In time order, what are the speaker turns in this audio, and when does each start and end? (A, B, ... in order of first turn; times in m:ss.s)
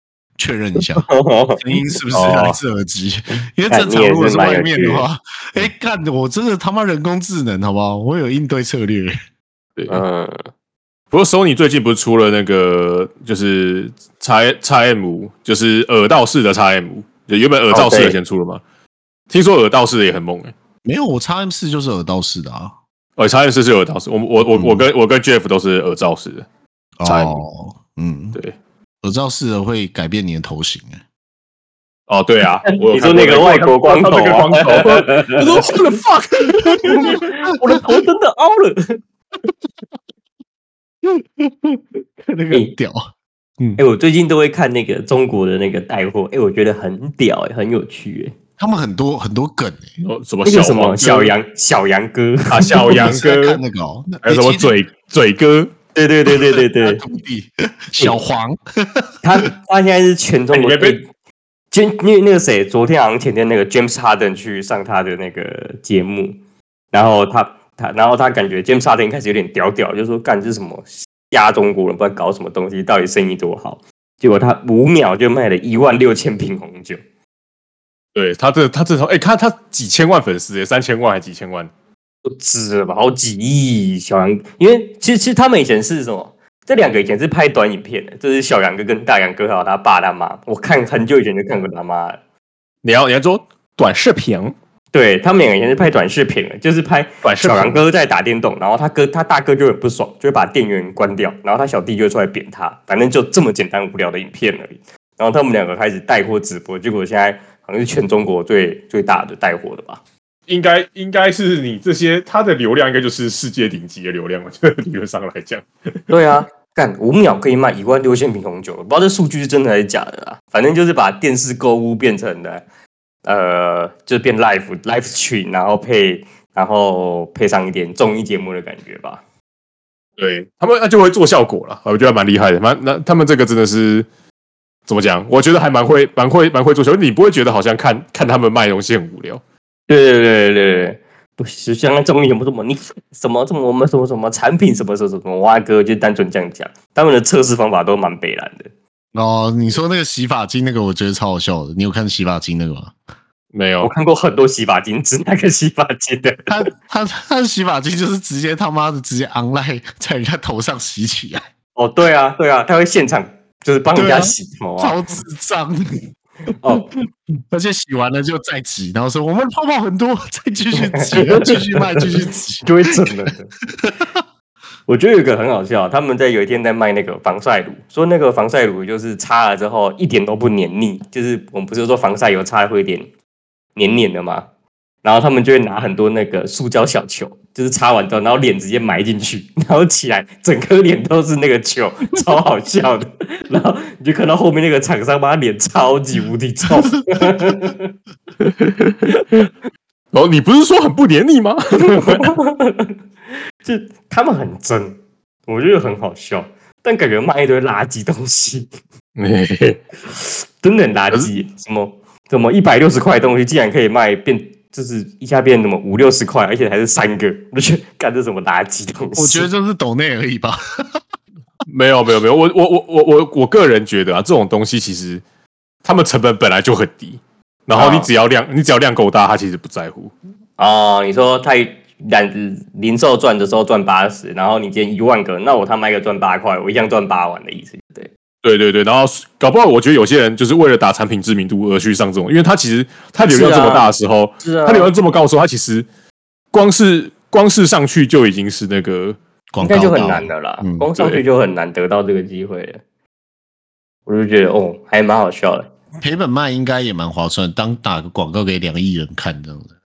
0:00.4-0:09.1 A
0:01.1-0:01.6 B
0:02.1-0:02.5 C
0:03.7-0:05.1 B
0:09.9-0:10.4 B
0:11.1-0:18.6 C
0:17.7-0:18.2 B
0:19.3-0:20.5 C
0:20.8-0:22.8 A
0:23.2-0:26.4 C
0:24.5-0:24.8 A
0:27.0-0:28.4 A
0:27.0-0:27.4 C
0:29.0-0:31.0 A
0:32.1-0:37.2 C
0:32.7-0:35.8 B
0:36.8-0:39.0 B
0:41.0-0:43.8 A
0:43.8-0:48.3 B
0:48.6-0:49.9 A
0:50.0-0:51.3 C
0:50.4-0:52.9 B
0:52.5-0:53.6 C
0:52.8-0:54.8 A
0:54.2-0:55.7 C
0:55.9-0:57.0 B
0:56.3-0:59.1 A
0:59.2-1:01.0 B
1:00.5-1:01.0 C
1:01.7-1:06.4 B
1:06.9-1:17.0 B
1:18.1-1:21.7 C
1:22.2-1:32.2 B
1:32.8-1:34.5 C
1:34.9-1:50.0 B
1:37.2-1:37.8 C
1:50.5-1:55.6 C
1:56.1-2:02.6 B
2:03.2-2:09.2 B
2:10.2-2:14.1 C
2:14.9-2:19.4 C
2:19.9-2:28.7 B
2:29.1-2:32.9 A
2:33.5-2:33.9 C
2:33.8-2:36.5 B
2:36.5-2:41.4 A
2:41.8-2:45.0 B
2:43.9-2:46.1 A
2:46.6-2:46.9 B
2:47.5-2:53.1 A
2:50.8-2:53.5 B
2:53.7-2:54.2 A
2:54.9-3:03.1 B
3:03.8-3:04.5 B
3:05.0-3:17.9 B
3:18.4-3:19.5 C
3:20.1-3:22.3 C
3:21.9-3:22.9 B
3:23.6-3:28.7 B
3:29.2-3:29.8 C
3:30.1-3:39.5 B
3:39.2-3:41.0 A
3:41.6-3:45.2 C
3:45.8-3:50.1 C
3:47.7-3:48.1 B
3:50.6-3:58.1 B
3:58.4-4:05.8 C
4:03.3-4:03.9 B
4:04.4-4:04.9 B
4:06.5-4:09.2 C
4:09.5-4:10.9 A
4:09.6-4:12.8 B
4:11.0-4:11.2 C
4:14.1-4:15.7 B
4:16.0-4:19.7 A